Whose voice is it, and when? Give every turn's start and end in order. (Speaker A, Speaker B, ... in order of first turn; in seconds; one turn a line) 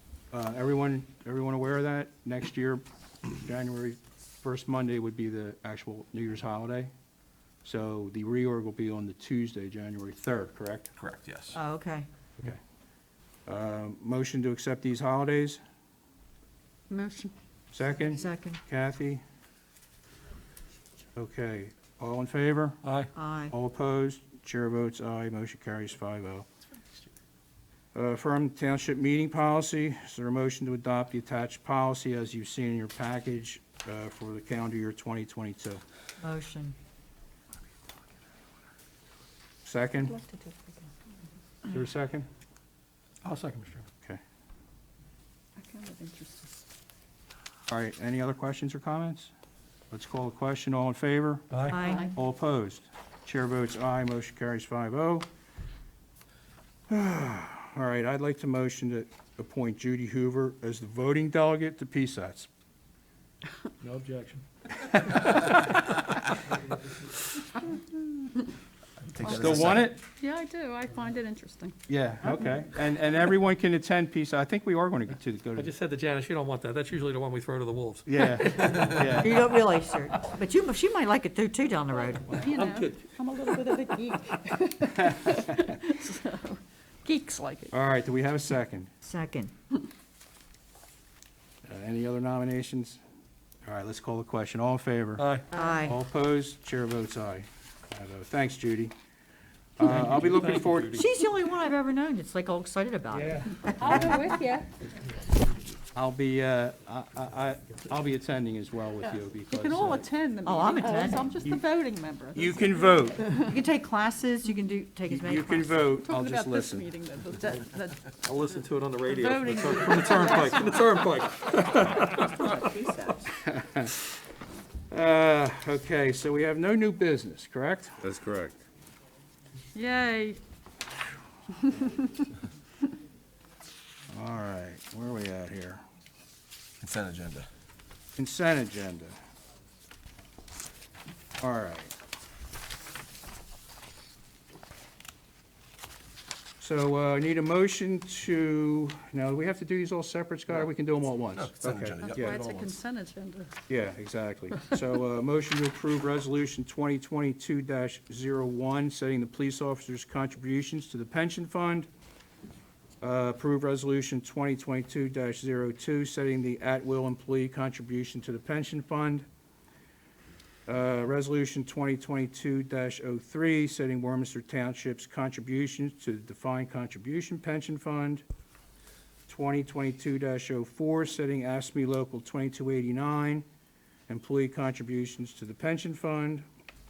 Speaker A: 0.3-6.9
Speaker A: 7.6-10.9
Speaker B: 11.0-11.6
Speaker C: 11.5-12.1
Speaker A: 13.4-15.6
Speaker D: 16.9-17.3
Speaker A: 17.7-19.2
Speaker C: 18.1-18.6
Speaker A: 21.1-22.8
Speaker E: 22.8-23.1
Speaker C: 23.1-23.5
Speaker A: 23.5-26.5
Speaker A: 27.9-35.8
Speaker C: 36.2-36.8
Speaker A: 39.6-40.2
Speaker D: 40.1-40.5
Speaker A: 41.7-42.3
Speaker E: 43.2-43.9
Speaker D: 45.6-46.5
Speaker A: 47.7-49.3
Speaker A: 49.9-55.3
Speaker E: 51.5-51.8
Speaker C: 51.7-52.1
Speaker D: 51.8-52.1
Speaker A: 56.9-62.5
Speaker E: 63.8-65.5
Speaker B: 69.1-69.9
Speaker A: 69.2-70.0
Speaker D: 70.2-71.8
Speaker A: 71.9-75.7
Speaker E: 75.6-79.1
Speaker A: 78.0-79.4
Speaker C: 78.8-82.4
Speaker D: 82.0-87.8
Speaker E: 82.3-83.1
Speaker A: 87.7-88.9
Speaker C: 89.0-89.5
Speaker A: 91.6-93.0
Speaker A: 93.6-98.9
Speaker E: 95.2-95.5
Speaker C: 95.5-96.0
Speaker A: 99.8-101.0
Speaker E: 99.8-101.0
Speaker C: 100.9-104.3
Speaker A: 103.2-104.2
Speaker D: 103.8-104.7
Speaker A: 105.9-110.0
Speaker D: 109.5-113.6
Speaker C: 110.4-111.4
Speaker A: 112.3-113.2
Speaker C: 113.4-115.9
Speaker A: 115.1-116.8
Speaker D: 116.0-118.2
Speaker E: 118.1-123.1
Speaker D: 119.0-120.8
Speaker A: 119.6-120.6
Speaker D: 122.2-123.2
Speaker A: 123.4-124.0
Speaker A: 124.9-128.6
Speaker D: 129.7-130.4
Speaker D: 131.5-132.3
Speaker A: 134.1-135.8
Speaker B: 136.8-137.5
Speaker A: 138.2-139.2
Speaker A: 141.4-141.9
Speaker A: 146.6-152.4
Speaker B: 151.3-152.8
Speaker D: 152.0-153.5
Speaker A: 153.7-161.9
Speaker A: 163.0-169.2
Speaker A: 170.7-178.2
Speaker A: 179.3-183.4
Speaker A: 184.1-186.4